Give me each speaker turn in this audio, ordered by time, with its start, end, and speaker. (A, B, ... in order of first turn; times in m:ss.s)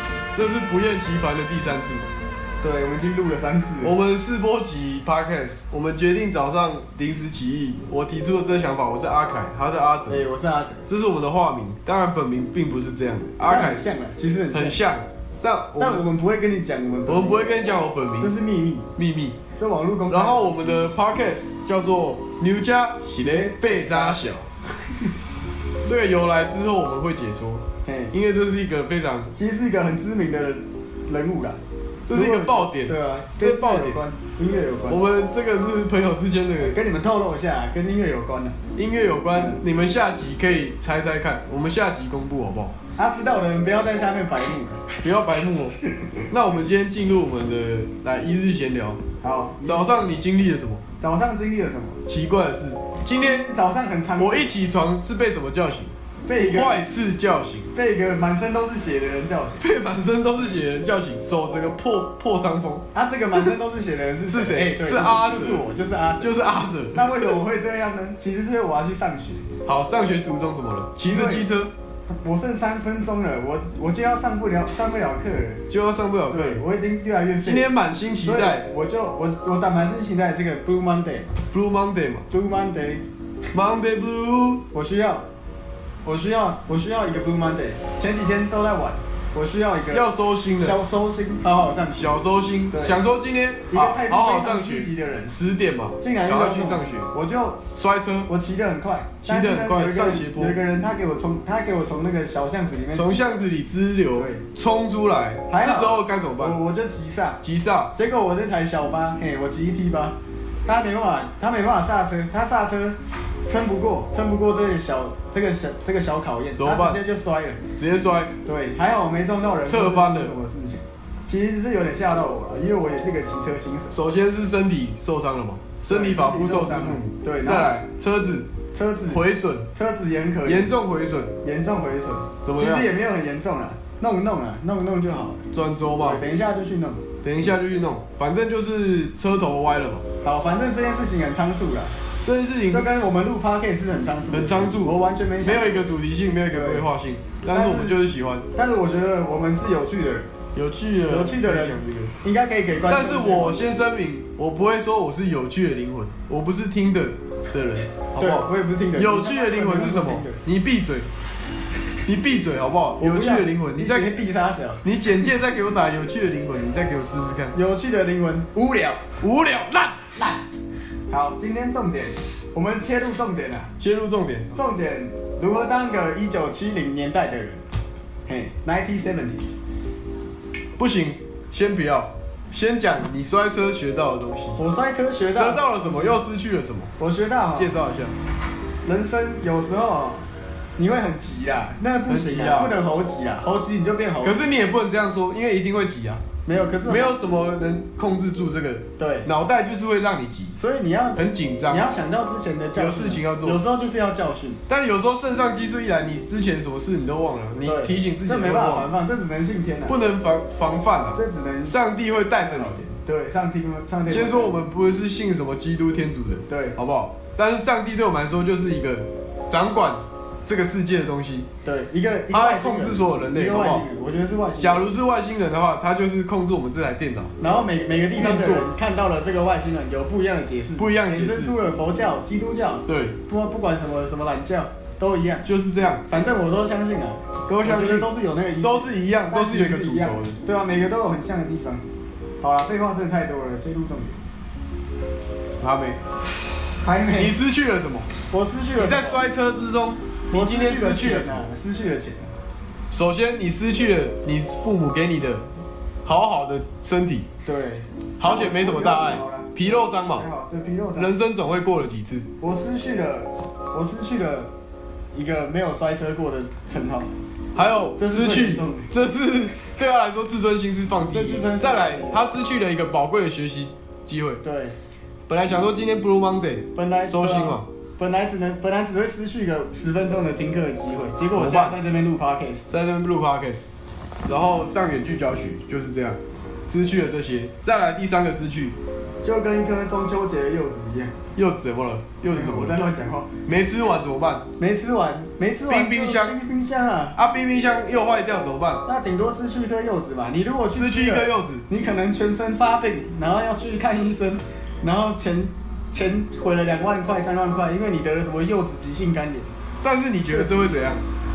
0:00.3-0:02.1 A
0:02.6-0:04.0 B
0:03.8-0:10.2 A
0:10.1-0:10.8 B
0:10.9-0:13.8 A
0:13.4-0:14.8 B
0:14.5-0:16.1 A
0:15.8-0:18.9 B
0:17.1-0:18.4 A
0:19.0-0:19.4 A
0:19.6-0:20.9 B
0:20.1-0:24.5 A
0:23.2-0:24.3 B
0:25.8-0:29.3 A
0:27.8-0:28.2 B
0:29.3-0:31.6 B
0:32.1-0:34.0 A
0:32.1-0:35.0 B
0:34.9-0:36.8 A
0:36.6-0:38.6 B
0:38.8-0:42.8 A
0:39.3-0:39.6 B
0:43.0-0:45.0 B
0:45.0-0:45.8 A
0:45.9-0:46.2 B
0:46.3-0:49.0 A
0:49.2-0:49.9 B
0:49.6-0:50.8 A
0:51.0-0:52.0 B
0:52.1-0:53.5 A
0:53.2-0:54.6 B
0:54.2-0:55.9 A
0:56.3-0:56.9 B
0:56.5-0:57.7 A
0:57.7-0:59.6 B
0:59.6-1:02.8 A
1:02.9-1:06.4 B
1:04.3-1:05.6 A
1:06.2-1:07.4 A
1:06.9-1:09.5 B
1:09.7-1:11.7 A
1:11.1-1:11.5 B
1:12.1-1:15.6 B
1:15.7-1:16.6 A
1:16.3-1:17.7 B
1:17.4-1:18.7 A
1:18.2-1:21.4 B
1:21.5-1:22.3 A
1:22.3-1:23.0 B
1:23.5-1:24.6 A
1:24.7-1:25.3 B
1:26.0-1:30.1 B
1:29.9-1:30.8 A
1:30.6-1:32.2 B
1:31.9-1:37.1 A
1:32.7-1:33.0 B
1:33.7-1:35.4 B
1:36.0-1:37.6 B
1:37.7-1:38.3 A
1:38.3-1:43.2 B
1:39.2-1:40.6 A
1:42.9-1:46.6 A
1:44.1-1:44.4 B
1:45.5-1:47.4 B
1:47.4-1:47.9 A
1:48.0-1:57.6 B
1:56.6-1:57.0 A
1:57.8-1:58.3 A
1:58.4-2:04.0 B
1:59.6-2:00.4 A
2:03.9-2:08.5 A
2:05.9-2:07.8 B
2:08.7-2:09.2 B
2:09.1-2:09.7 A
2:09.7-2:10.7 B
2:10.4-2:11.3 A
2:11.4-2:15.5 B
2:12.4-2:12.9 A
2:15.5-2:16.2 A
2:16.0-2:17.0 B
2:17.2-2:20.0 A
2:20.2-2:21.9 B
2:22.2-2:22.9 A
2:22.7-2:25.9 B
2:24.3-2:28.5 A
2:26.5-2:26.9 B
2:27.5-2:28.0 B
2:28.5-2:30.3 B
2:30.6-2:32.1 A
2:31.1-2:33.7 B
2:32.9-2:41.1 A
2:38.2-2:40.4 B
2:42.0-2:44.1 A
2:43.0-2:44.8 B
2:44.8-2:47.6 A
2:47.5-2:49.1 B
2:49.2-2:50.4 A
2:51.1-2:53.7 B
2:53.8-2:54.5 A
2:54.5-2:57.6 B
2:58.3-2:59.5 B
3:00.8-3:04.6 A
3:04.6-3:06.2 B
3:05.4-3:06.9 A
3:07.0-3:07.7 B
3:07.5-3:08.1 A
3:08.8-3:10.3 B
3:10.8-3:14.4 B
3:12.1-3:12.8 A
3:14.2-3:16.2 A
3:16.5-3:17.2 B
3:16.8-3:20.6 A
3:19.0-3:19.3 B
3:20.6-3:24.6 B
3:21.2-3:21.9 A
3:22.8-3:23.6 A
3:24.7-3:28.9 A
3:27.6-3:30.0 B
3:29.9-3:32.8 A
3:31.2-3:31.8 B
3:32.4-3:34.6 B
3:34.1-3:41.5 A
3:36.5-3:36.8 B
3:41.6-3:44.9 B
3:42.3-3:43.8 A
3:44.6-3:47.4 A
3:47.4-3:55.5 B
3:48.2-3:48.7 A
3:50.8-3:51.6 A
3:52.9-3:53.2 A
3:55.4-3:56.1 A
3:56.1-4:01.8 B
3:57.5-3:58.1 A
3:58.6-4:00.4 A
4:02.4-4:04.2 B
4:05.6-4:06.0 A
4:06.8-4:07.4 B
4:07.2-4:08.1 A
4:08.3-4:09.3 B
4:08.8-4:11.4 A
4:10.3-4:12.3 B
4:12.9-4:15.4 A
4:16.0-4:17.3 A
4:17.4-4:21.1 B
4:18.2-4:20.3 A
4:20.9-4:22.3 A
4:22.4-4:24.5 B
4:25.1-4:27.1 B
4:27.5-4:34.4 A
4:28.0-4:28.9 B
4:31.1-4:32.2 B
4:34.4-4:34.8 B
4:35.3-4:37.7 A
4:36.7-4:42.6 B
4:41.3-4:41.8 A
4:42.7-4:43.7 A
4:44.3-4:48.8 A
4:49.2-4:51.2 B
4:51.4-4:52.8 A
4:52.3-4:53.3 B
4:53.4-4:54.4 A
4:54.6-4:57.2 B
4:55.7-4:56.4 A
4:57.2-4:58.8 A
4:58.8-5:09.5 B
5:00.7-5:01.6 A
5:09.8-5:11.0 A
5:10.3-5:10.9 B